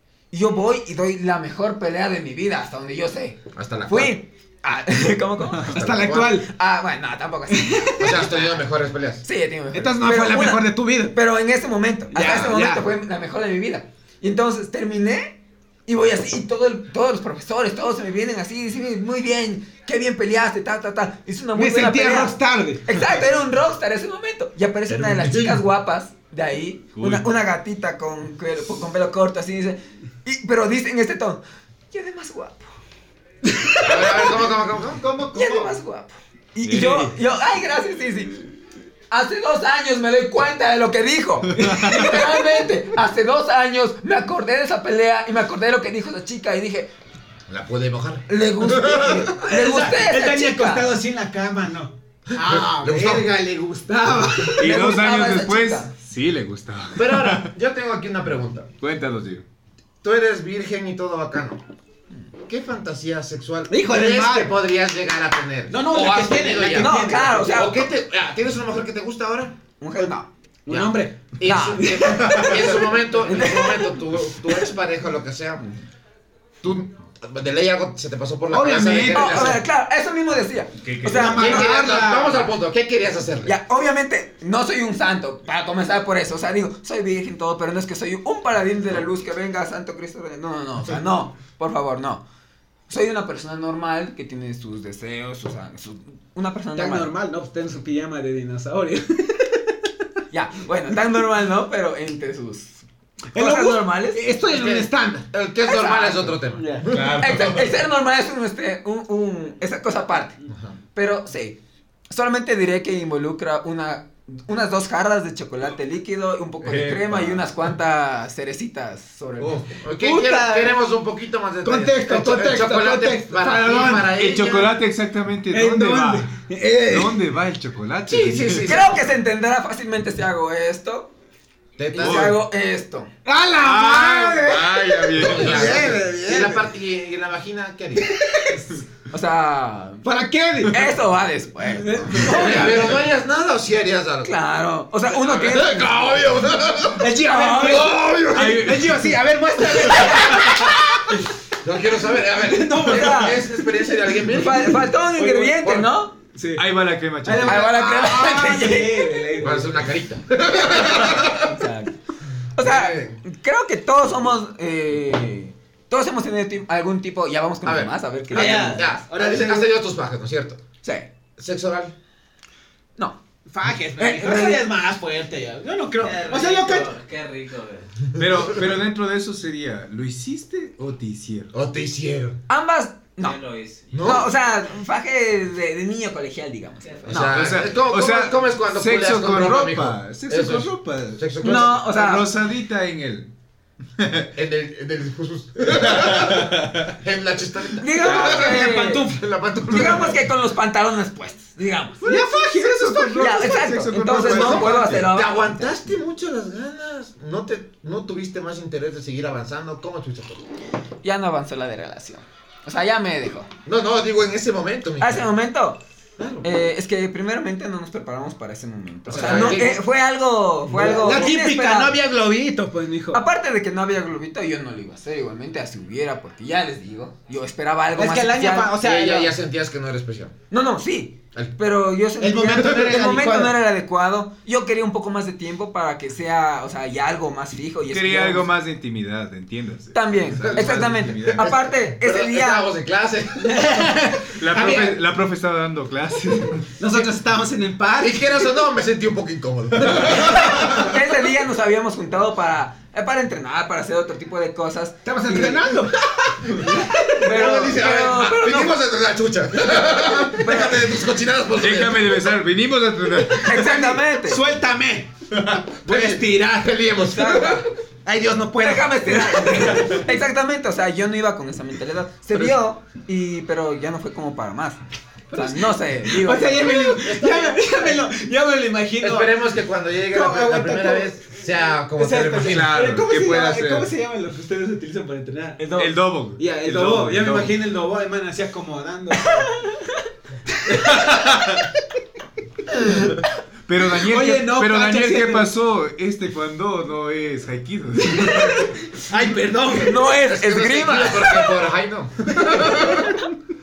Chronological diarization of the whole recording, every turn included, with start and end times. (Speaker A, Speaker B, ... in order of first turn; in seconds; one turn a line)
Speaker A: 0.3-5.8
Speaker B: 3.5-4.2
Speaker B: 5.6-6.5
Speaker C: 5.7-6.5
Speaker A: 6.4-8.5
Speaker C: 7.5-8.2
Speaker B: 8.0-9.2
Speaker A: 9.2-32.7
Speaker C: 9.7-11.2
Speaker C: 12.1-12.8
Speaker C: 21.6-23.0
Speaker B: 24.9-25.6
Speaker D: 27.0-27.2
Speaker A: 33.6-34.3
Speaker B: 33.8-35.0
Speaker D: 35.0-35.7
Speaker A: 35.3-38.6
Speaker D: 36.6-37.1
Speaker A: 39.1-46.9
Speaker D: 41.5-42.3
Speaker B: 47.5-49.3
Speaker A: 48.3-50.9
Speaker C: 49.1-54.8
Speaker B: 52.3-53.3
Speaker B: 54.1-54.5
Speaker D: 54.6-57.5
Speaker A: 54.6-55.9
Speaker B: 57.0-58.7
Speaker D: 58.8-59.4
Speaker B: 60.0-61.6
Speaker B: 62.5-69.6
Speaker C: 63.7-64.5
Speaker C: 65.7-67.7
Speaker A: 66.7-67.9
Speaker A: 69.8-70.3
Speaker C: 70.7-73.1
Speaker B: 70.7-75.7
Speaker A: 71.4-72.7
Speaker A: 73.2-73.9
Speaker B: 76.6-79.6
Speaker C: 78.5-79.6
Speaker A: 79.1-81.7
Speaker D: 80.8-81.5
Speaker C: 81.1-82.5
Speaker B: 81.2-83.5
Speaker A: 83.5-92.2
Speaker A: 92.9-97.1
Speaker C: 96.8-99.8
Speaker A: 100.3-104.2
Speaker C: 103.3-105.3
Speaker B: 104.5-107.5
Speaker A: 105.7-106.4
Speaker C: 106.5-106.9
Speaker D: 106.8-107.8
Speaker A: 107.2-110.4
Speaker B: 110.5-110.8
Speaker A: 111.0-111.6
Speaker A: 112.1-119.7
Speaker D: 116.6-117.5
Speaker B: 119.5-124.8
Speaker C: 120.0-120.8
Speaker C: 121.6-124.1
Speaker D: 124.2-128.8
Speaker C: 125.5-127.3
Speaker B: 128.1-129.1
Speaker A: 128.6-131.1
Speaker B: 131.8-132.4
Speaker A: 131.9-133.1
Speaker D: 132.0-132.4
Speaker C: 133.2-136.7
Speaker D: 133.6-136.0
Speaker B: 135.1-138.1
Speaker C: 138.2-138.8
Speaker A: 139.1-140.1
Speaker C: 140.0-140.9
Speaker A: 140.6-142.9
Speaker C: 141.7-143.0
Speaker B: 142.2-144.4
Speaker A: 144.2-146.0
Speaker B: 145.1-148.6
Speaker C: 147.0-151.2
Speaker A: 147.2-147.9
Speaker D: 148.3-149.2
Speaker A: 149.9-150.5
Speaker D: 150.1-150.6
Speaker B: 151.6-154.9
Speaker C: 152.4-153.6
Speaker A: 152.8-153.4
Speaker A: 154.3-156.2
Speaker C: 155.2-155.7
Speaker B: 155.6-155.9
Speaker C: 156.3-156.7
Speaker D: 156.6-157.8
Speaker C: 157.2-159.9
Speaker A: 157.4-159.3
Speaker B: 159.4-161.5
Speaker A: 161.3-161.9
Speaker A: 162.6-168.9
Speaker B: 162.6-163.2
Speaker B: 167.6-170.6
Speaker C: 168.3-169.7
Speaker B: 171.4-171.9
Speaker C: 173.5-176.9
Speaker A: 174.0-174.6
Speaker E: 176.0-178.0
Speaker D: 178.2-181.5
Speaker B: 181.5-182.4
Speaker A: 182.5-183.4
Speaker E: 183.2-184.1
Speaker B: 183.9-184.3
Speaker A: 184.0-187.5
Speaker B: 187.1-191.9
Speaker D: 187.1-193.3
Speaker A: 191.4-192.3
Speaker D: 194.0-194.3
Speaker B: 194.4-200.2
Speaker D: 195.8-196.9
Speaker A: 197.8-202.2
Speaker C: 198.0-199.2
Speaker C: 202.0-203.8
Speaker D: 202.8-205.1
Speaker A: 203.2-205.8
Speaker B: 204.1-210.4
Speaker A: 211.0-213.5
Speaker B: 213.7-215.3
Speaker A: 215.0-215.8
Speaker B: 216.2-216.5
Speaker A: 216.4-222.0
Speaker B: 219.1-219.8
Speaker C: 220.7-223.2
Speaker A: 223.1-228.8
Speaker C: 227.9-229.3
Speaker B: 228.8-230.3
Speaker A: 230.5-238.5
Speaker C: 232.2-233.6
Speaker D: 237.9-241.6
Speaker A: 239.9-242.7
Speaker B: 240.4-243.9
Speaker C: 243.4-245.0
Speaker D: 244.3-246.8
Speaker C: 246.8-248.5
Speaker B: 248.0-250.9
Speaker C: 250.1-250.9
Speaker A: 250.7-255.8
Speaker C: 255.1-257.8
Speaker A: 256.6-258.8
Speaker B: 257.2-262.2
Speaker C: 259.6-260.8
Speaker A: 260.4-260.9
Speaker D: 261.5-263.7
Speaker A: 263.4-264.4
Speaker C: 263.4-265.1
Speaker C: 265.7-266.8
Speaker B: 265.9-267.7
Speaker A: 267.1-267.7
Speaker C: 268.1-270.0
Speaker A: 268.6-274.8
Speaker A: 275.3-278.0
Speaker C: 275.3-279.4
Speaker B: 277.0-277.7
Speaker B: 279.0-282.8
Speaker C: 280.1-281.1
Speaker C: 282.0-289.7
Speaker D: 282.4-283.9
Speaker D: 285.8-287.6
Speaker C: 290.6-291.4
Speaker D: 290.7-291.6
Speaker C: 292.7-293.0
Speaker D: 293.7-298.7
Speaker C: 293.9-295.5
Speaker C: 298.9-300.1
Speaker A: 299.8-301.6
Speaker B: 300.0-303.2
Speaker C: 302.5-303.3